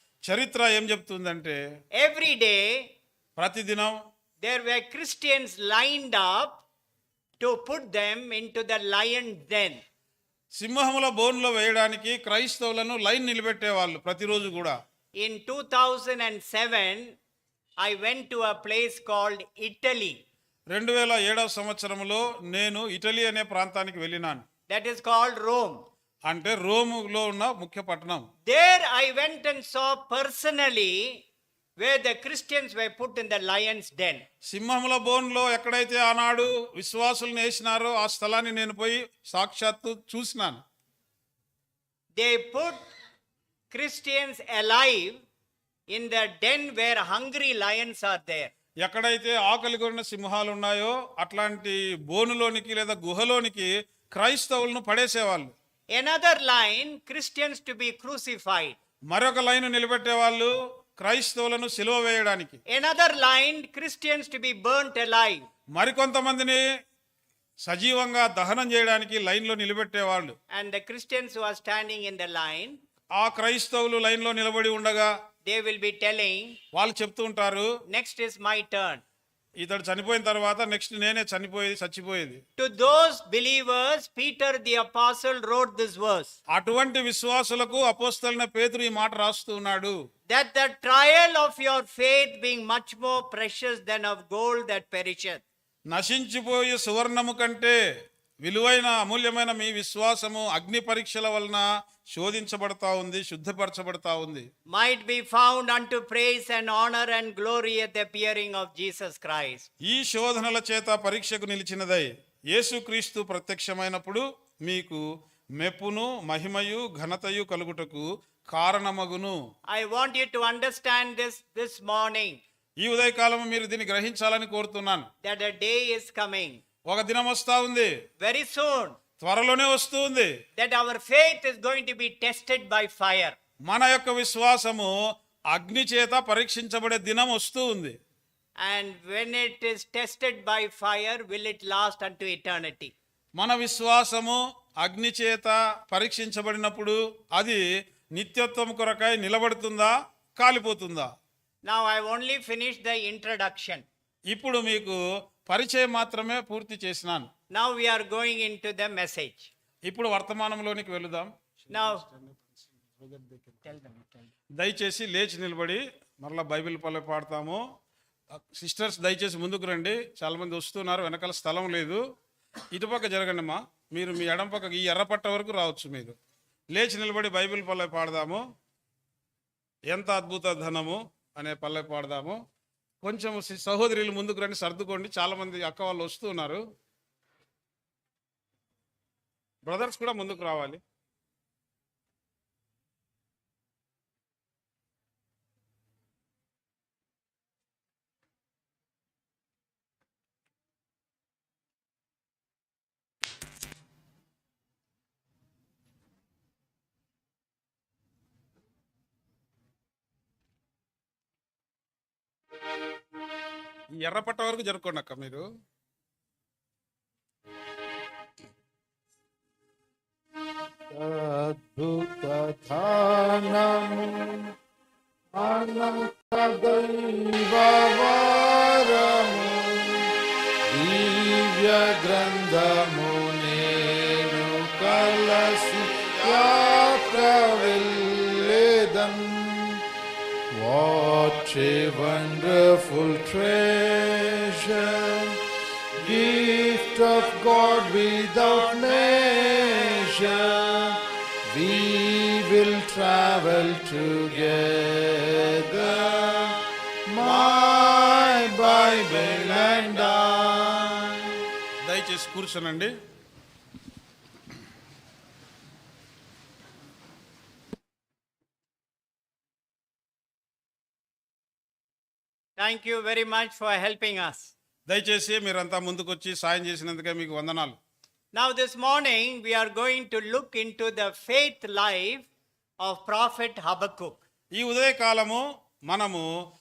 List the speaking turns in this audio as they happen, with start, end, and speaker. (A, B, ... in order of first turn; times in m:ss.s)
0:00.2-0:01.6 A
0:02.0-0:02.9 B
0:03.4-0:04.0 A
0:04.4-0:06.6 B
0:07.4-0:09.8 B
0:10.6-0:14.8 A
0:15.2-0:17.1 B
0:17.8-0:20.2 B
0:20.7-0:24.4 A
0:24.7-0:25.8 B
0:26.2-0:28.2 A
0:28.4-0:31.2 B
0:31.8-0:34.2 B
0:34.5-0:40.6 A
0:42.1-0:42.9 B
0:43.7-0:45.2 B
0:45.9-0:48.5 B
0:48.8-0:55.5 A
0:55.9-0:58.8 B
0:59.1-1:02.6 A
1:02.7-1:05.5 B
1:05.8-1:06.6 A
1:07.6-1:10.4 A
1:10.5-1:12.8 B
1:13.2-1:15.1 A
1:15.4-1:16.6 B
1:16.7-1:17.7 A
1:17.9-1:19.0 B
1:19.6-1:22.4 A
1:22.6-1:26.3 B
1:26.5-1:30.0 A
1:30.3-1:35.4 B
1:35.9-1:37.8 A
1:38.4-1:44.5 A
1:44.7-1:49.7 B
1:49.8-1:55.0 A
1:55.6-1:59.4 A
1:59.7-2:02.4 B
2:02.8-2:05.1 A
2:05.2-2:06.6 B
2:06.9-2:07.9 A
2:08.2-2:09.0 B
2:09.2-2:10.3 A
2:10.6-2:13.4 B
2:13.7-2:14.9 A
2:15.5-2:17.9 A
2:18.6-2:22.9 B
2:23.4-2:27.6 A
2:28.2-2:31.1 A
2:31.6-2:33.9 B
2:34.3-2:37.3 A
2:37.5-2:39.5 B
2:39.9-2:43.6 A
2:41.7-2:42.0 B
2:43.7-2:44.3 B
2:44.6-2:47.6 A
2:48.6-2:52.0 A
2:52.7-2:56.2 A
2:56.7-2:58.4 A
2:59.9-3:02.4 A
3:03.0-3:06.6 A
3:09.7-3:10.8 A
3:34.0-3:35.4 A
3:40.9-3:44.5 C
3:45.3-3:50.1 C
3:50.7-3:59.8 C
3:55.9-3:57.2 A
4:00.5-4:05.4 C
4:06.0-4:16.5 C
4:08.3-4:10.9 B
4:15.5-4:16.6 B
4:17.1-4:21.4 C
4:17.2-4:20.2 B
4:21.8-4:22.9 A
4:32.6-4:34.5 B
4:34.9-4:37.8 A
4:38.3-4:42.3 B
4:42.8-4:44.2 B
4:44.6-4:46.2 A